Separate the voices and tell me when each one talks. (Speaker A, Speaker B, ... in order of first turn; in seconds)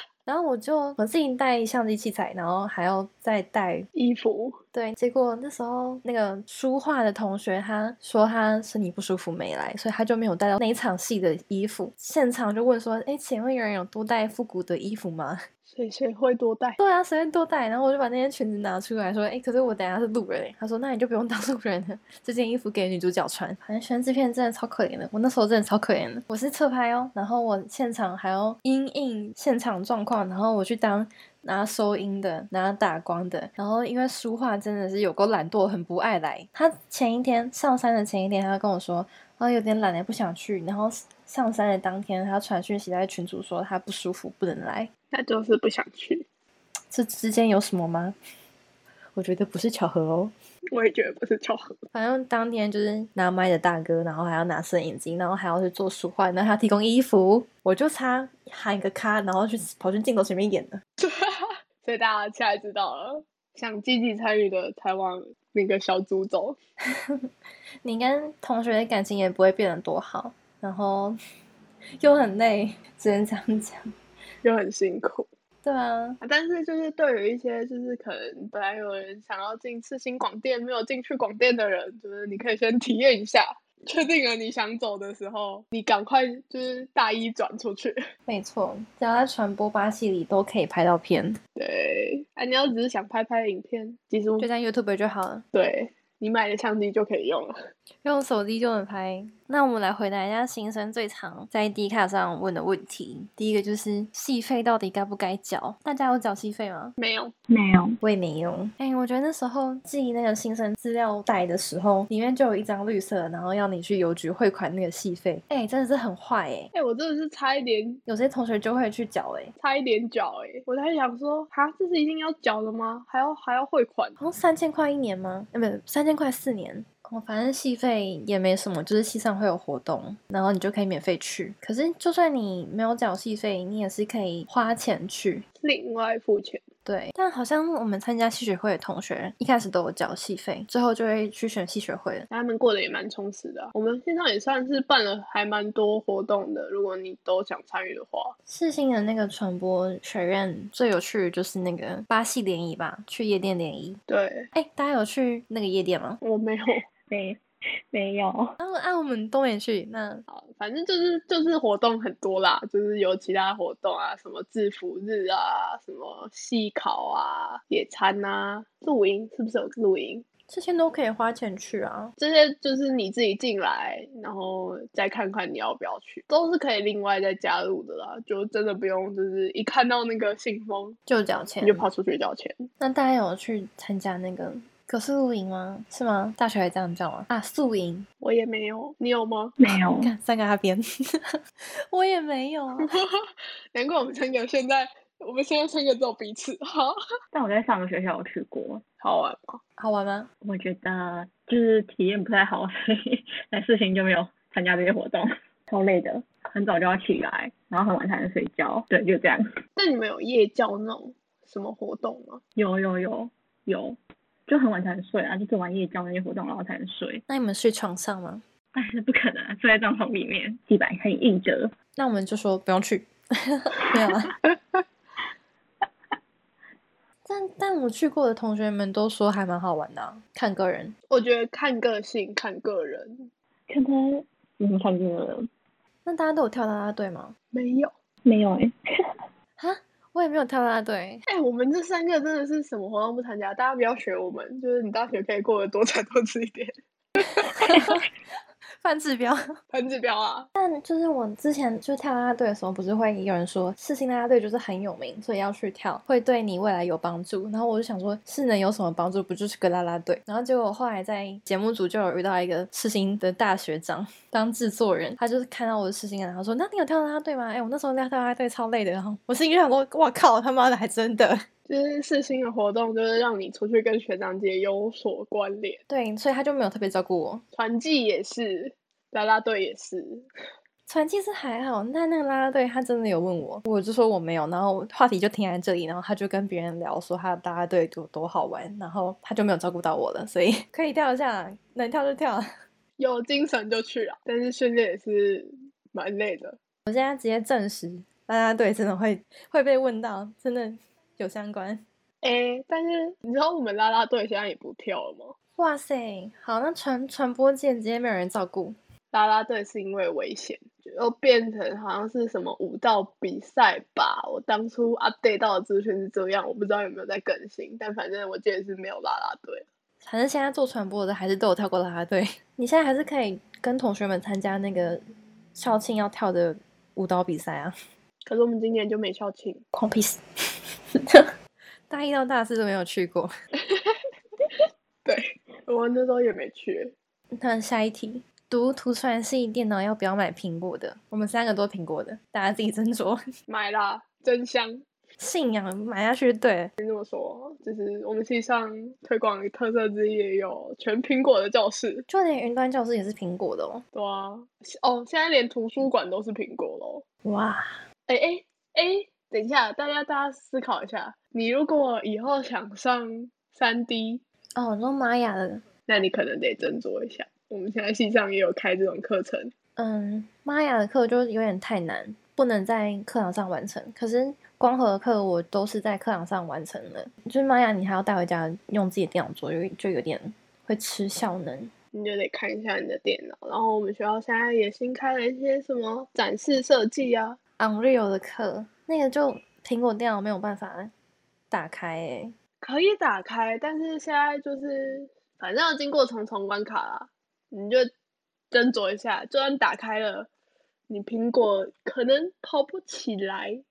Speaker A: 0.2-3.9, 4.7-15.4, 16.8-44.9, 46.9-48.1, 49.1-50.3, 51.9-60.8, 66.9-67.3, 67.8-71.2, 72.0-73.9, 75.6-76.2, 88.3-91.4, 94.4-95.4, 98.0-106.9, 108.0-116.7, 118.1-119.5, 124.2-135.4, 136.9-142.3, 148.5-154.0, 154.5-156.2, 158.6-160.2, 170.5-172.1, 181.1-181.9, 182.8-188.1, 190.0-191.3, 191.9-192.9, 199.8-200.3, 217.3-218.4, 222.0-224.3, 227.2-230.9, 236.0-237.3, 239.6-241.2, 247.2-248.1, 248.8-249.4, 250.5-271.4, 275.9-277.4, 280.9-292.5, 296.9-301.8, 305.6-308.8, 320.0-325.0, 325.5-327.7, 329.7-330.2, 330.9-331.3, 331.9-333.3, 337.3-343.2, 345.2-346.7, 352.1-353.8, 357.2-357.7, 364.6-365.6, 369.8-381.7, 387.6-390.9, 391.5-392.3
Speaker B: 3.9-4.6, 15.7-16.8, 45.1-46.2, 50.7-51.7, 61.0-66.6, 74.4-75.3, 76.2-88.0, 91.6-94.5, 95.5-97.5, 107.0-107.3, 116.7-118.0, 119.6-124.2, 135.6-136.6, 142.3-148.3, 154.1-154.5, 156.2-156.9, 160.3-170.2, 172.2-181.0, 181.6-182.7, 188.2-189.6, 192.8-196.9, 199.0-199.6, 209.8-212.4, 231.1-233.3, 237.5-237.9, 241.3-248.0, 249.7-250.5, 271.7-275.8, 277.5-280.3, 293.0-296.6, 302.2-305.4, 309.1-319.6, 328.2-329.6, 333.6-336.9, 343.5-344.8, 346.8-352.1, 353.9-357.0, 358.1-364.2, 365.9-369.5, 381.9-387.4, 392.6-397.9, 398.5-400.3, 400.9-403.6
Speaker C: 107.5-108.0, 157.1-157.4, 157.9-158.6, 189.6-190.1, 197.3-198.8, 200.4-209.4, 212.6-217.2, 218.7-221.7, 233.7-235.5, 238.2-239.1